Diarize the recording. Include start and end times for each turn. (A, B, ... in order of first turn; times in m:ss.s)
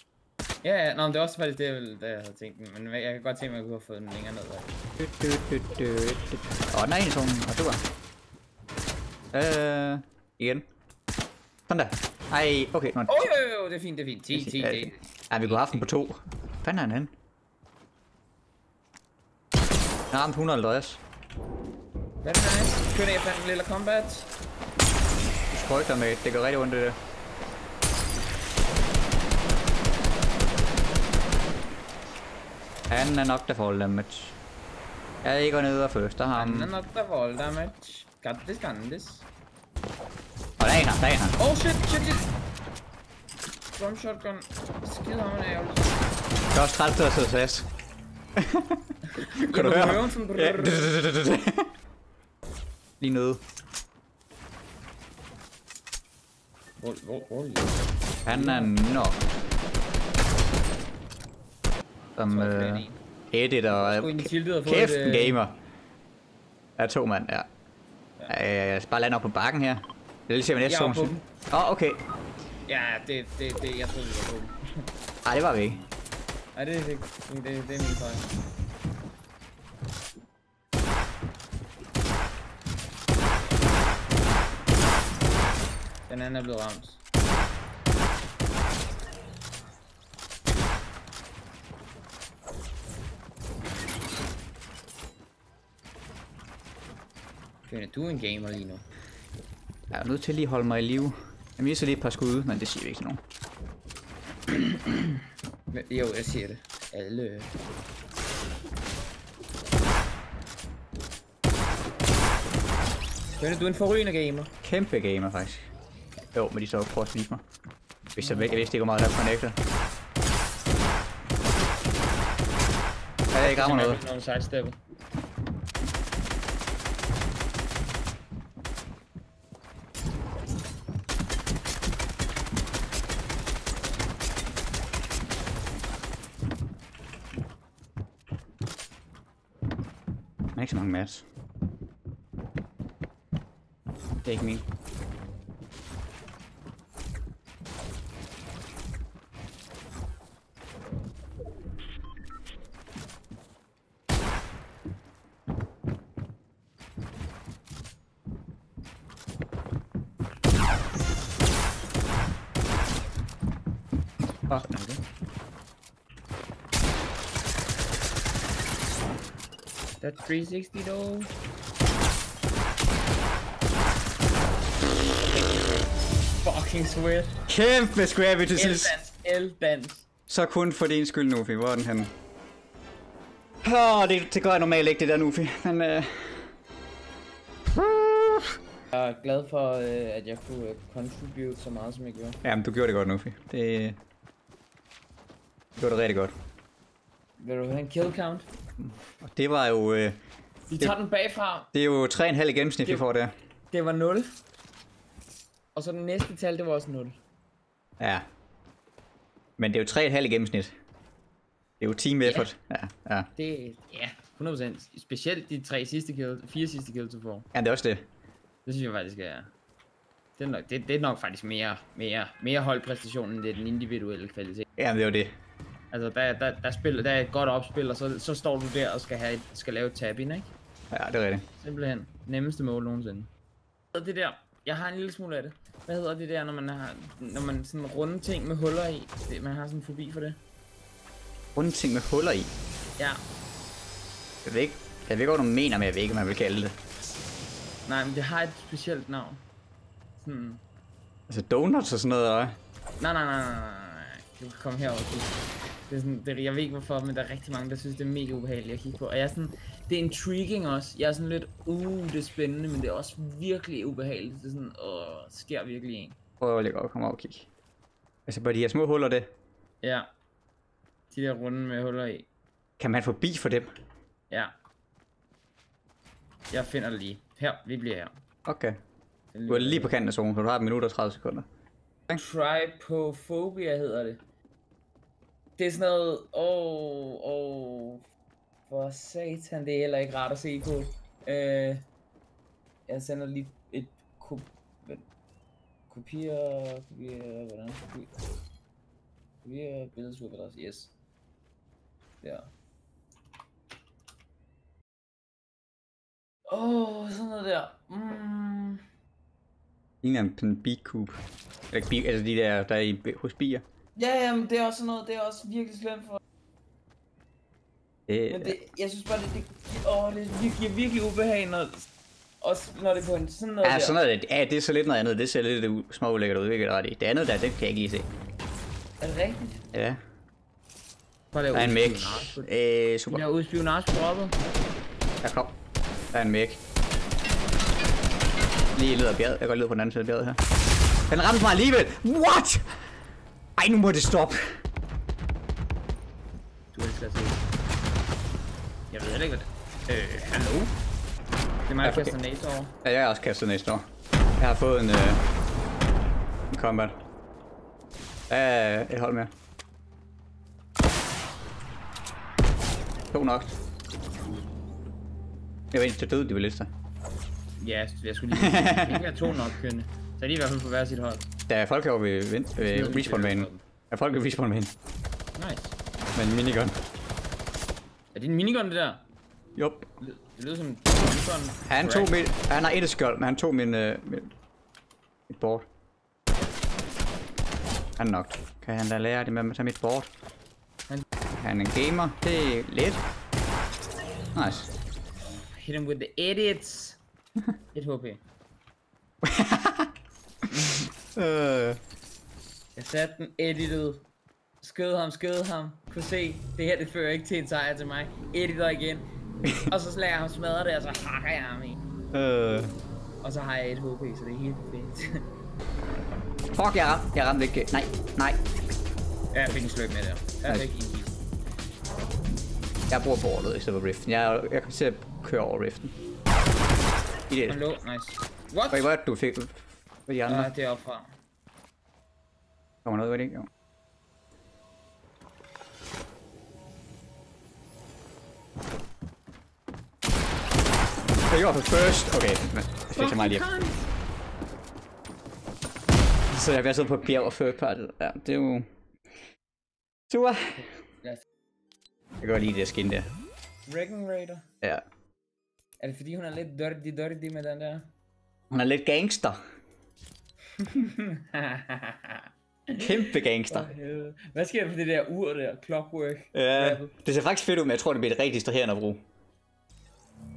0:00.6-0:04.7 A
0:05.0-0:07.8 B
0:09.3-0:10.6 B
0:11.7-0:13.3 B
0:13.1-0:15.9 A
0:14.3-0:17.1 B
0:20.1-0:21.0 B
0:22.2-0:24.3 A
0:25.5-0:27.0 B
0:32.9-0:34.4 B
0:35.2-0:36.7 B
0:36.3-0:39.3 A
0:40.6-0:41.4 B
0:41.4-0:42.3 A
0:43.7-0:46.0 A
0:46.5-0:47.7 B
0:48.4-0:51.7 B
0:49.1-0:50.9 A
0:53.0-0:53.4 B
0:56.8-0:58.7 A
0:58.2-0:59.2 B
1:02.2-1:05.6 B
1:02.3-1:03.0 A
1:03.7-1:05.4 A
1:06.8-1:07.5 B
1:08.3-1:12.0 B
1:10.6-1:11.2 A
1:12.7-1:14.8 A
1:15.2-1:15.8 B
1:16.5-1:18.3 A
1:26.1-1:27.0 A
1:37.7-1:38.8 A
1:39.9-1:43.2 B
1:44.5-1:45.2 A
1:45.7-1:47.5 A
1:53.4-1:54.5 A
1:54.6-1:55.7 B
1:56.3-1:57.4 B
1:58.2-1:59.6 B
1:58.2-1:58.6 A
2:03.3-2:04.0 B
2:03.4-2:04.8 A
2:20.5-2:21.2 B
2:24.2-2:24.6 B
2:44.5-2:45.0 A
2:50.0-2:51.3 A
2:55.2-2:55.9 A
2:56.4-2:57.4 A
2:57.5-2:58.9 B
2:58.5-3:00.1 A
3:00.3-3:02.1 B
3:03.6-3:06.5 B
3:07.7-3:08.6 B
3:08.9-3:12.4 A
3:12.4-3:14.0 B
3:15.8-3:16.3 B
3:17.4-3:18.5 A
3:18.8-3:20.2 B
3:20.7-3:21.7 A
3:21.7-3:23.3 B
3:23.7-3:24.3 A
3:25.7-3:27.2 A
3:28.0-3:28.2 B
3:29.6-3:30.7 B
3:31.8-3:33.3 B
3:33.4-3:37.5 A
3:37.5-3:38.0 B
3:38.6-3:39.5 A
3:40.4-3:44.6 A
3:44.8-3:45.3 B
3:45.9-3:50.5 A
3:50.9-3:51.4 B
3:51.6-3:53.3 A
3:53.9-4:00.4 A
4:01.5-4:02.5 B
4:04.4-4:06.8 B
4:07.8-4:09.4 A
4:10.2-4:10.6 A
4:11.3-4:12.6 B
4:13.0-4:26.2 A
4:26.4-4:27.5 B
4:28.3-4:29.3 B
4:29.8-4:30.1 A
4:31.1-4:32.3 A
4:32.8-4:33.7 B
4:34.3-4:34.5 A
4:36.5-4:38.1 A
4:38.4-4:38.8 B
4:39.3-4:39.9 A
4:39.5-4:41.5 B
4:42.1-4:44.2 A
4:45.6-4:48.0 A
4:48.6-4:51.8 A
4:52.9-4:55.0 A
4:55.9-4:58.1 A
4:59.4-5:00.9 A
5:02.2-5:02.5 A
5:06.5-5:08.8 A
5:10.0-5:11.2 B
5:11.7-5:13.6 B
5:14.0-5:16.2 A
5:18.1-5:18.5 B
5:18.3-5:21.9 A
5:22.4-5:24.0 A
5:23.6-5:28.1 B
5:29.0-5:29.6 A
5:29.7-5:30.0 B
5:31.3-5:32.5 A
5:31.5-5:33.2 B
5:33.1-5:34.4 A
5:35.2-5:35.5 B
5:36.1-5:36.6 B
5:38.7-5:40.4 B
5:41.1-5:42.8 B
5:43.6-5:44.6 B
5:46.7-5:47.4 A
5:48.9-5:50.7 A
5:51.7-5:52.7 A
5:51.8-5:52.1 B
5:52.8-5:53.8 B
5:54.4-5:55.2 B
5:56.5-5:57.0 B
5:58.3-5:59.3 B
6:03.1-6:03.6 B
6:05.7-6:06.7 B
6:07.6-6:11.3 A
6:08.4-6:09.0 B
6:11.5-6:14.7 B
6:12.6-6:13.6 A
6:15.4-6:15.8 A
6:16.1-6:16.8 B
6:18.1-6:19.0 A
6:19.6-6:19.9 B
6:20.0-6:22.1 A
6:21.6-6:24.3 B
6:25.3-6:25.7 B
6:28.0-6:30.1 B
6:31.3-6:33.0 B
6:34.3-6:34.7 B
6:35.6-6:37.0 A
6:37.7-6:38.2 A
6:39.2-6:39.9 B
6:40.5-6:40.9 A
6:41.2-6:41.8 B
6:42.8-6:44.0 A
6:44.6-6:49.0 A
6:49.6-6:51.8 A
6:52.1-6:52.7 B
6:53.2-6:55.2 A
6:56.5-6:58.4 B
6:59.3-7:01.2 A
7:02.9-7:05.9 B
7:07.3-7:07.6 B
7:07.5-7:08.9 A
7:08.7-7:10.5 B
7:10.3-7:11.1 A
7:12.8-7:13.5 B
7:21.3-7:23.4 B
7:22.9-7:23.9 A
7:26.3-7:28.7 B
7:30.1-7:30.7 B
7:32.2-7:33.1 B
7:33.7-7:34.5 A
7:35.8-7:37.9 A
7:38.5-7:39.4 B
7:40.6-7:46.9 A
7:42.8-7:43.7 B
7:46.3-7:49.0 B